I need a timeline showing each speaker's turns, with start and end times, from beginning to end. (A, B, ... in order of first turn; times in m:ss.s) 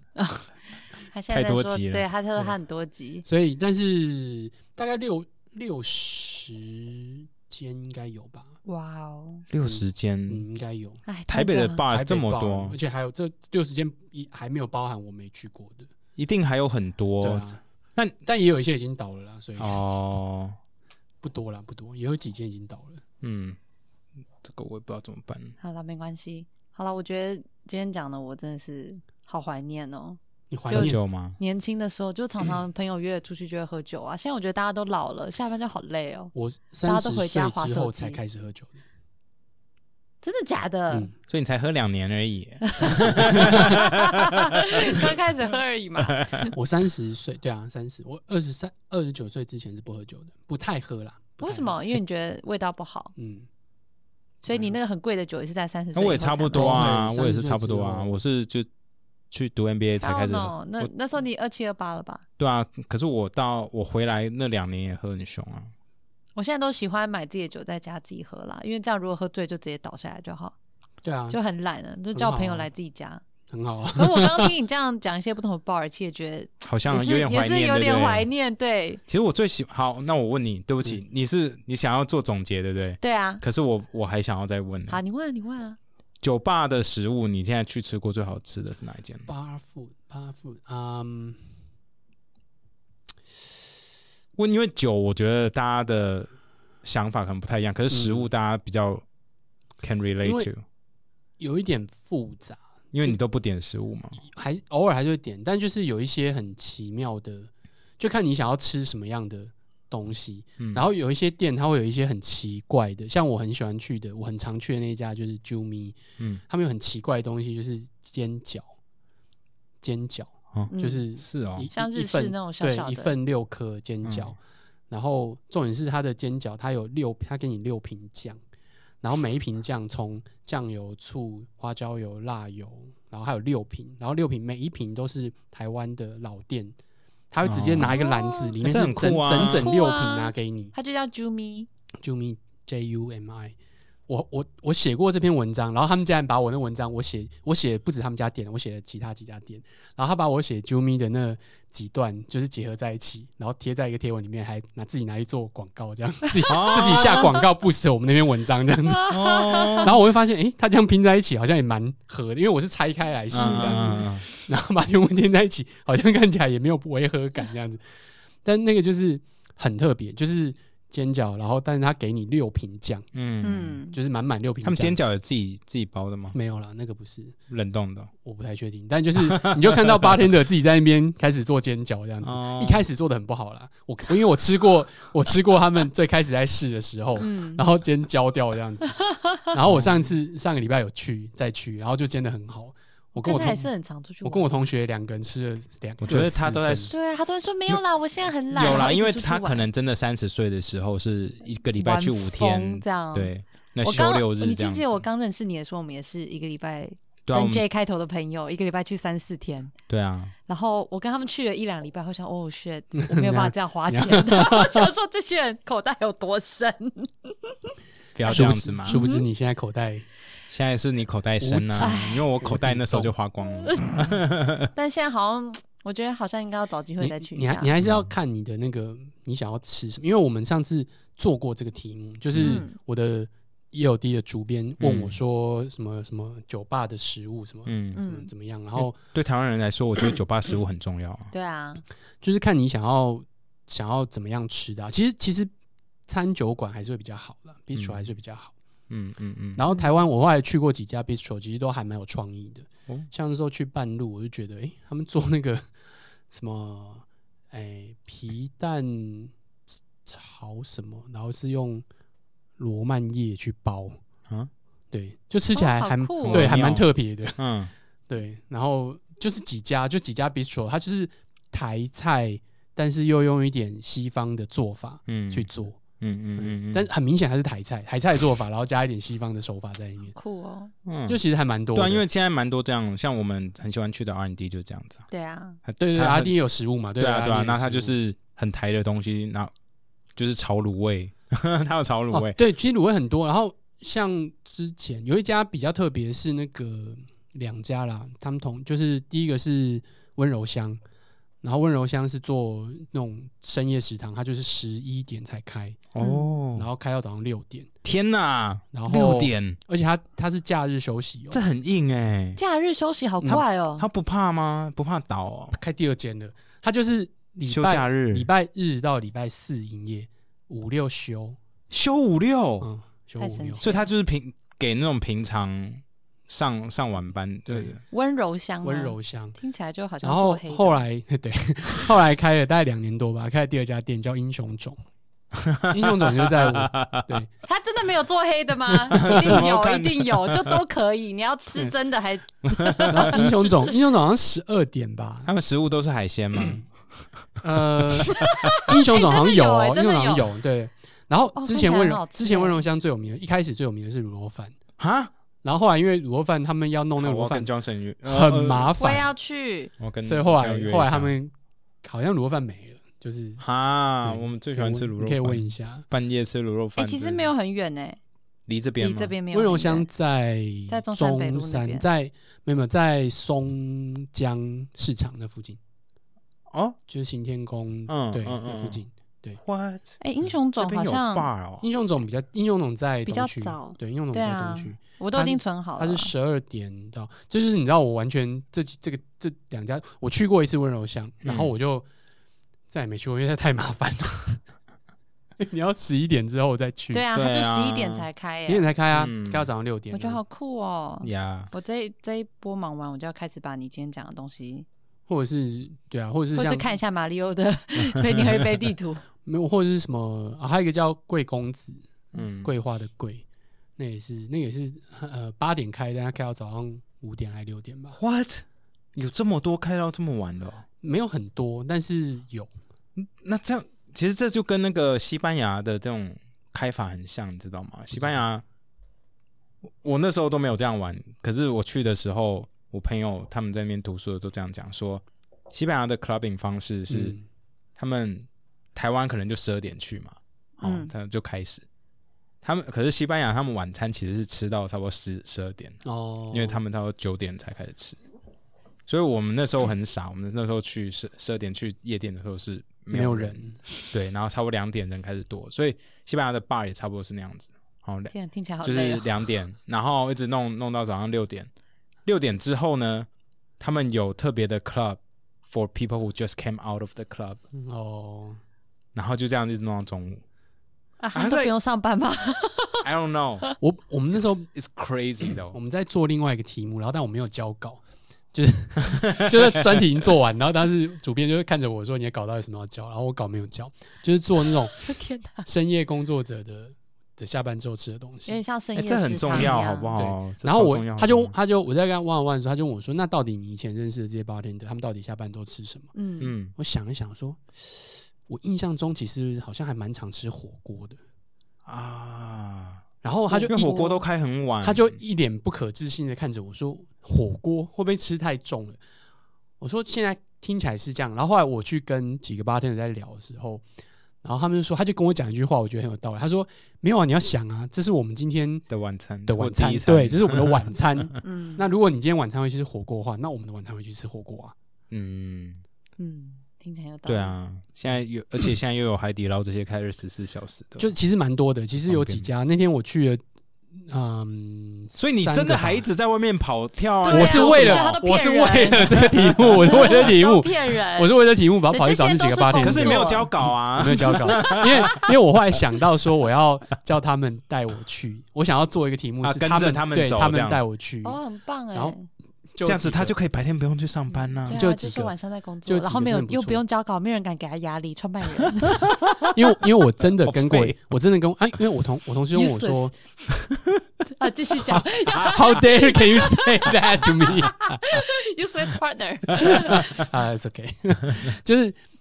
0:00.2-0:00.5 A
0:01.0-0:03.2 A
0:01.3-0:02.0 B
0:03.2-0:08.6 C
0:08.6-0:09.4 A
0:09.5-0:10.4 B
0:09.6-0:11.0 C
0:11.1-0:11.8 A
0:11.3-0:12.8 B
0:11.9-0:15.9 C
0:16.2-0:18.2 B
0:17.2-0:17.6 C
0:18.2-0:19.8 C
0:19.6-0:20.6 B
0:21.2-0:23.0 C
0:23.2-0:23.6 B
0:24.4-0:25.6 B
0:25.6-0:36.3 A
0:30.5-0:31.0 C
0:30.7-0:31.4 B
0:36.3-0:38.8 C
0:36.9-0:38.2 A
0:40.2-0:41.1 A
0:41.3-0:45.1 B
0:42.6-0:46.6 A
0:42.8-0:43.9 C
0:46.1-0:46.4 B
0:46.5-0:51.8 C
0:51.4-0:53.1 A
0:53.2-0:53.5 C
0:54.4-0:56.9 A
0:54.5-0:54.8 C
0:56.0-0:58.7 B
0:56.6-0:58.2 C
0:59.3-1:00.9 B
1:00.0-1:02.2 A
1:02.4-1:05.7 B
1:06.4-1:10.6 A
1:11.0-1:11.4 C
1:11.3-1:13.2 A
1:12.2-1:12.7 C
1:13.5-1:14.5 C
1:14.0-1:19.0 A
1:16.6-1:18.3 B
1:19.1-1:25.0 B
1:23.0-1:23.4 A
1:24.9-1:25.8 A
1:26.2-1:29.3 B
1:29.3-1:31.4 C
1:34.4-1:36.3 B
1:36.8-1:39.0 B
1:37.9-1:38.3 C
1:39.8-1:40.6 B
1:40.2-1:40.5 C
1:41.4-1:43.2 C
1:42.9-1:44.2 B
1:44.2-1:56.0 C
1:50.6-1:50.9 B
1:56.5-1:58.7 C
1:59.8-2:04.4 C
2:00.6-2:01.7 B
2:00.7-2:01.0 A
2:01.7-2:03.2 A
2:04.0-2:04.3 B
2:04.9-2:08.4 C
2:09.0-2:16.7 C
2:17.3-2:20.7 C
2:17.4-2:18.0 B
2:17.9-2:18.5 A
2:18.6-2:19.7 B
2:19.3-2:21.7 A
2:22.0-2:23.6 C
2:24.1-2:47.8 C
2:36.5-2:37.3 B
2:39.0-2:39.9 A
2:39.0-2:40.0 B
2:43.3-2:44.3 B
2:43.3-2:44.1 A
2:48.4-2:53.1 C
2:53.1-2:53.8 B
2:53.4-2:54.0 A
2:53.9-2:55.0 C
2:54.6-2:56.4 B
2:56.3-2:57.4 C
2:57.5-2:58.1 B
2:58.2-3:09.0 C
2:59.2-3:00.1 B
3:02.2-3:02.8 B
3:07.2-3:07.6 A
3:08.9-3:09.5 A
3:09.5-3:13.6 C
3:09.7-3:10.0 B
3:13.2-3:14.6 A
3:14.2-3:17.0 C
3:16.0-3:17.0 B
3:16.9-3:19.7 A
3:18.5-3:25.0 B
3:21.8-3:23.3 A
3:23.8-3:29.7 A
3:27.3-3:27.6 B
3:29.9-3:30.3 B
3:30.5-3:37.5 A
3:33.0-3:34.9 C
3:38.2-3:39.0 B
3:38.3-3:40.1 C
3:38.3-3:39.2 A
3:40.5-3:44.7 B
3:41.4-3:43.1 C
3:41.8-3:42.2 A
3:43.5-3:44.1 A
3:44.7-3:47.7 A
3:47.0-3:59.0 C
3:47.8-3:48.1 B
3:52.3-3:52.6 B
3:52.4-3:52.7 A
3:54.8-3:55.2 B
3:57.7-3:58.0 B
3:58.0-3:58.3 A
3:58.8-4:01.3 B
4:01.3-4:01.8 A
4:02.2-4:05.5 C
4:06.1-4:08.5 C
4:07.8-4:08.1 B
4:08.9-4:09.6 B
4:09.6-4:15.7 C
4:16.3-4:19.3 C
4:20.0-4:21.8 C
4:22.6-4:24.0 C
4:24.9-4:27.4 C
4:25.5-4:26.7 A
4:26.2-4:27.7 B
4:28.1-4:35.8 C
4:35.1-4:35.5 B
4:36.0-4:36.9 B
4:36.4-4:40.2 C
4:40.1-4:40.7 A
4:40.9-4:41.2 B
4:41.1-4:42.0 C
4:41.8-4:45.0 B
4:45.1-4:45.6 A
4:45.7-4:46.3 B
4:45.8-4:48.0 C
4:47.0-4:49.5 B
4:50.2-4:52.4 B
4:52.1-5:00.8 C
5:01.4-5:06.0 C
5:06.0-5:06.7 B
5:06.0-5:06.4 A
5:06.6-5:07.7 C
5:07.8-5:09.6 B
5:08.7-5:11.4 C
5:11.3-5:12.4 B
5:12.4-5:13.9 A
5:13.3-5:15.6 B
5:15.5-5:21.4 C
5:17.5-5:18.3 B
5:21.7-5:22.7 B
5:22.6-5:23.6 C
5:23.2-5:23.9 A
5:23.6-5:27.8 B
5:27.5-5:27.8 C
5:27.9-5:30.8 A
5:28.6-5:29.4 C
5:30.0-5:34.8 C
5:35.3-5:37.2 B
5:35.7-5:37.3 C
5:37.4-5:43.7 A
5:38.7-5:39.4 C
5:39.0-5:40.6 B
5:42.5-5:43.4 B
5:42.9-5:45.3 C
5:45.3-5:46.7 B
5:46.4-5:46.6 C
5:47.4-5:54.6 C
5:48.1-5:50.3 A
5:48.1-5:48.4 B
5:51.4-5:52.6 A
5:54.8-5:55.1 B
5:55.4-5:57.5 C
5:57.0-5:58.8 B
5:58.0-5:59.1 C
5:58.8-5:59.7 A
5:59.8-6:01.1 B
6:00.0-6:01.3 C
6:01.8-6:03.4 C
6:03.4-6:07.3 B
6:04.0-6:05.8 C
6:06.8-6:08.0 A
6:08.5-6:09.1 B
6:08.8-6:09.9 A
6:09.3-6:15.6 C
6:10.7-6:11.8 A
6:16.5-6:16.8 B
6:16.9-6:19.4 C
6:17.9-6:18.8 B
6:19.4-6:20.0 B
6:20.0-6:21.3 A
6:20.6-6:21.6 B
6:21.6-6:31.9 C
6:23.0-6:26.1 A
6:31.2-6:31.5 B
6:32.7-6:34.4 C
6:35.4-6:37.0 C
6:36.9-6:38.6 A
6:37.1-6:38.1 B
6:38.5-6:40.2 C
6:38.9-6:39.5 B
6:39.9-6:44.7 A
6:41.0-6:41.5 B
6:45.1-6:46.7 C
6:46.3-6:49.0 A
6:49.2-6:51.8 C
6:52.1-6:52.5 B
6:52.4-6:53.2 C
6:53.8-6:58.0 C
6:57.9-7:00.6 B
7:00.8-7:02.5 C
7:03.0-7:08.4 B
7:09.8-7:17.2 B
7:16.9-7:17.2 C
7:17.8-7:21.6 B
7:20.6-7:20.9 A
7:22.4-7:25.8 B
7:25.8-7:26.6 C
7:26.3-7:28.0 B
7:28.9-7:38.1 B
7:32.9-7:33.9 C
7:38.1-7:39.2 A
7:38.6-7:41.5 B
7:42.1-7:43.1 B
7:43.6-7:47.4 B
7:47.5-7:48.4 C
7:49.0-7:50.2 B
7:51.0-7:52.8 A
7:51.1-7:51.5 B
7:52.8-7:53.5 B
7:53.6-7:54.5 C
7:54.2-7:55.6 B
7:55.3-7:57.8 C
7:58.3-8:04.8 C
8:04.8-8:05.5 A
8:05.4-8:08.4 C
8:08.3-8:10.0 A
8:08.8-8:11.3 B
8:09.3-8:15.9 C
8:16.0-8:16.3 A
8:16.2-8:16.5 B
8:16.6-8:21.0 C
8:21.7-8:22.8 B
8:23.0-8:23.8 C
8:23.3-8:24.0 A
8:23.5-8:25.0 B
8:24.6-8:28.8 C
8:29.6-8:33.6 C
8:34.2-8:38.7 C
8:38.7-8:41.1 B
8:39.3-8:44.5 C
8:41.2-8:41.6 A
8:44.9-8:45.6 B
8:46.0-8:47.4 A
8:47.1-8:50.9 B
8:50.8-8:53.2 C
8:51.9-8:52.3 B
8:53.8-8:55.8 C
8:54.9-8:57.9 B
8:57.0-9:01.1 A
8:57.1-9:11.2 C
9:01.7-9:05.0 A
9:02.6-9:04.9 B
9:09.2-9:10.6 B
9:11.0-9:12.0 A
9:12.6-9:13.1 C
9:12.6-9:14.6 B
9:14.5-9:19.3 A
9:14.5-9:15.1 C
9:15.7-9:16.6 C
9:19.2-9:22.9 C
9:20.2-9:20.8 B
9:22.3-9:22.9 A
9:24.2-9:29.9 A
9:24.7-9:27.9 C
9:29.4-9:31.8 C
9:29.4-9:30.0 B